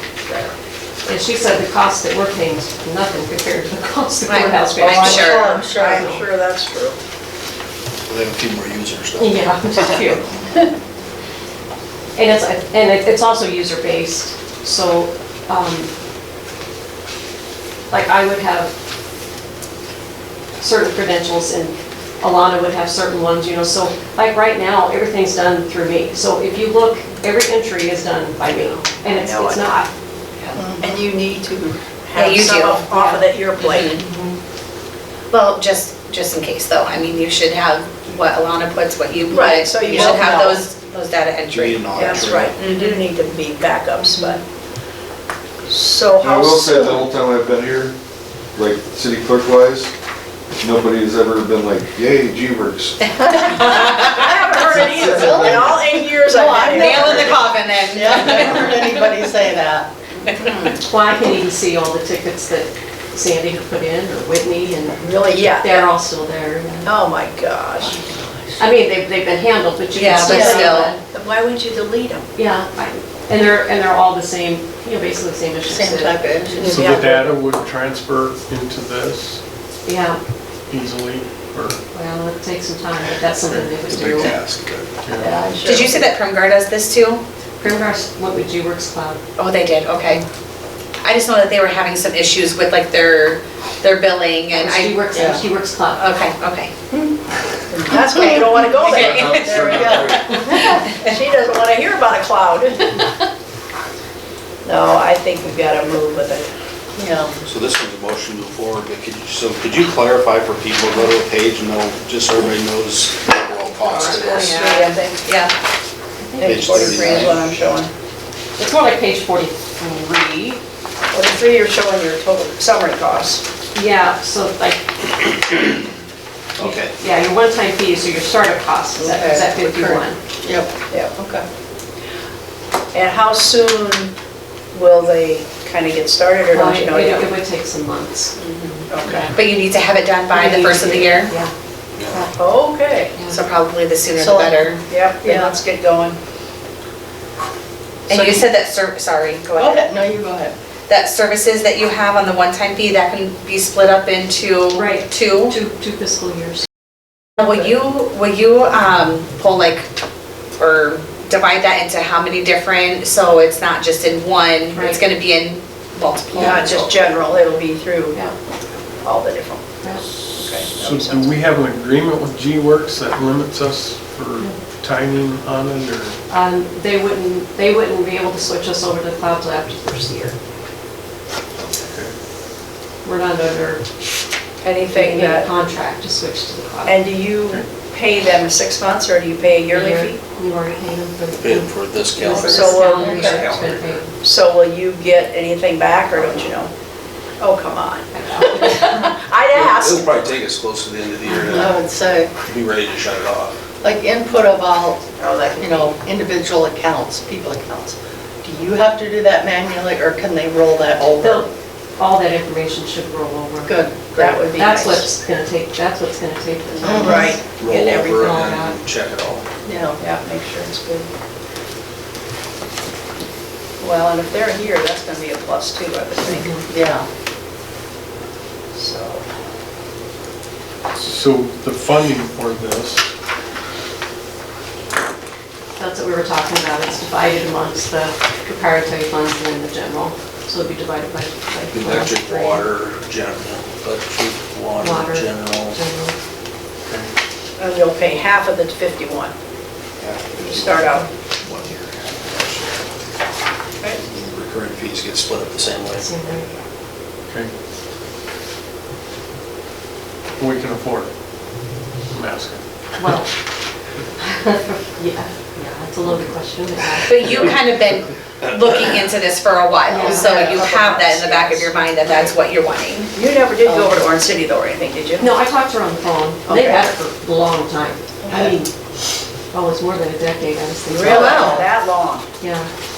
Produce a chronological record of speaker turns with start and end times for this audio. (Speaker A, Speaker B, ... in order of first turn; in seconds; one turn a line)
Speaker A: 1.1-6.2
Speaker B: 4.3-5.6
Speaker C: 4.8-7.0
Speaker D: 4.9-6.1
Speaker E: 8.1-10.2
Speaker A: 9.2-10.2
Speaker A: 12.2-15.9
Speaker A: 17.9-18.7
Speaker A: 20.6-29.9
Speaker C: 29.1-29.7
Speaker C: 30.4-34.0
Speaker D: 30.6-31.0
Speaker B: 32.1-34.0
Speaker B: 35.3-43.0
Speaker C: 39.3-40.6
Speaker D: 39.9-40.6
Speaker E: 41.5-42.5
Speaker C: 41.9-44.4
Speaker C: 45.7-47.1
Speaker F: 46.2-47.9
Speaker F: 48.5-49.9
Speaker F: 50.6-53.2
Speaker C: 53.3-57.4
Speaker B: 53.6-54.1
Speaker D: 54.1-60.0
Speaker F: 54.9-55.7
Speaker B: 56.6-59.2
Speaker C: 60.2-60.7
Speaker A: 60.7-66.9
Speaker C: 65.0-65.9
Speaker C: 66.8-68.0
Speaker D: 67.8-68.6
Speaker A: 68.6-71.0
Speaker B: 69.9-70.9
Speaker D: 70.2-70.7
Speaker C: 70.3-72.3
Speaker A: 72.3-76.9
Speaker D: 75.7-77.3
Speaker G: 76.6-79.4
Speaker A: 79.8-80.2
Speaker G: 80.7-81.8
Speaker A: 81.9-84.3
Speaker G: 83.5-83.8
Speaker E: 83.9-85.0
Speaker G: 85.0-85.4
Speaker C: 85.2-86.1
Speaker B: 85.6-87.2
Speaker A: 87.6-89.2
Speaker B: 89.4-90.2
Speaker B: 91.0-95.2
Speaker A: 94.5-96.3
Speaker D: 95.1-95.4
Speaker B: 96.0-96.7
Speaker C: 97.7-103.2
Speaker B: 98.6-100.8
Speaker G: 98.9-99.9
Speaker F: 98.9-100.1
Speaker D: 99.6-100.8
Speaker C: 104.6-106.5
Speaker D: 107.0-107.4
Speaker E: 107.5-114.4
Speaker C: 113.8-115.2
Speaker B: 114.2-115.5
Speaker A: 116.2-117.1
Speaker C: 116.4-117.9
Speaker E: 116.4-117.5
Speaker A: 118.6-120.6
Speaker C: 121.1-123.4
Speaker A: 123.7-125.6
Speaker E: 126.6-126.9
Speaker A: 126.6-130.2
Speaker D: 129.0-131.4
Speaker C: 130.9-131.1
Speaker C: 132.9-134.1
Speaker C: 134.7-137.3
Speaker A: 136.5-138.3
Speaker C: 138.4-139.3
Speaker B: 138.6-141.3
Speaker A: 139.0-139.3
Speaker A: 140.3-141.5
Speaker C: 142.3-143.2
Speaker B: 143.2-144.8
Speaker D: 144.2-145.6
Speaker C: 144.9-146.2
Speaker B: 148.1-149.8
Speaker D: 148.1-148.5
Speaker D: 149.6-150.5
Speaker B: 150.9-155.6
Speaker A: 154.7-156.6
Speaker B: 157.4-159.9
Speaker B: 160.6-167.0
Speaker A: 164.7-165.0
Speaker C: 166.3-168.2
Speaker C: 169.0-169.6
Speaker A: 169.8-170.1
Speaker C: 170.2-171.4
Speaker G: 170.7-176.2
Speaker A: 176.3-180.3
Speaker G: 181.6-182.1
Speaker A: 183.0-183.8
Speaker C: 184.6-185.5
Speaker A: 184.9-187.0
Speaker C: 186.8-190.2
Speaker A: 189.7-194.1
Speaker E: 191.4-194.0
Speaker C: 192.3-193.5
Speaker C: 194.2-196.7
Speaker C: 197.4-200.2
Speaker A: 198.1-199.1
Speaker E: 199.5-201.6
Speaker A: 201.3-201.7
Speaker D: 201.4-202.3
Speaker E: 202.4-203.6
Speaker D: 203.8-211.5
Speaker C: 205.2-205.9
Speaker A: 211.2-217.4
Speaker D: 213.7-214.1
Speaker C: 214.1-215.1
Speaker D: 216.8-217.3
Speaker C: 216.8-217.9
Speaker E: 217.6-219.4
Speaker A: 218.1-218.8
Speaker D: 219.6-220.0
Speaker C: 220.0-221.1
Speaker C: 223.8-226.6
Speaker A: 226.2-226.6
Speaker D: 226.7-227.1
Speaker C: 228.7-229.2
Speaker G: 230.9-233.0
Speaker A: 235.8-242.7
Speaker E: 241.7-245.8
Speaker A: 244.8-246.2
Speaker C: 247.6-249.3
Speaker E: 250.0-252.8
Speaker C: 250.4-251.1
Speaker E: 254.0-256.1
Speaker A: 255.9-256.4
Speaker G: 260.4-261.1
Speaker G: 262.1-263.1
Speaker A: 263.0-263.3
Speaker A: 264.2-267.1
Speaker B: 267.0-273.1
Speaker A: 269.9-270.3
Speaker C: 270.0-271.7
Speaker C: 273.1-275.3
Speaker D: 273.6-274.0
Speaker A: 275.2-278.7
Speaker C: 276.5-276.8
Speaker D: 278.2-278.5
Speaker A: 279.5-281.7
Speaker C: 280.9-282.2
Speaker B: 281.0-281.6
Speaker A: 282.4-282.7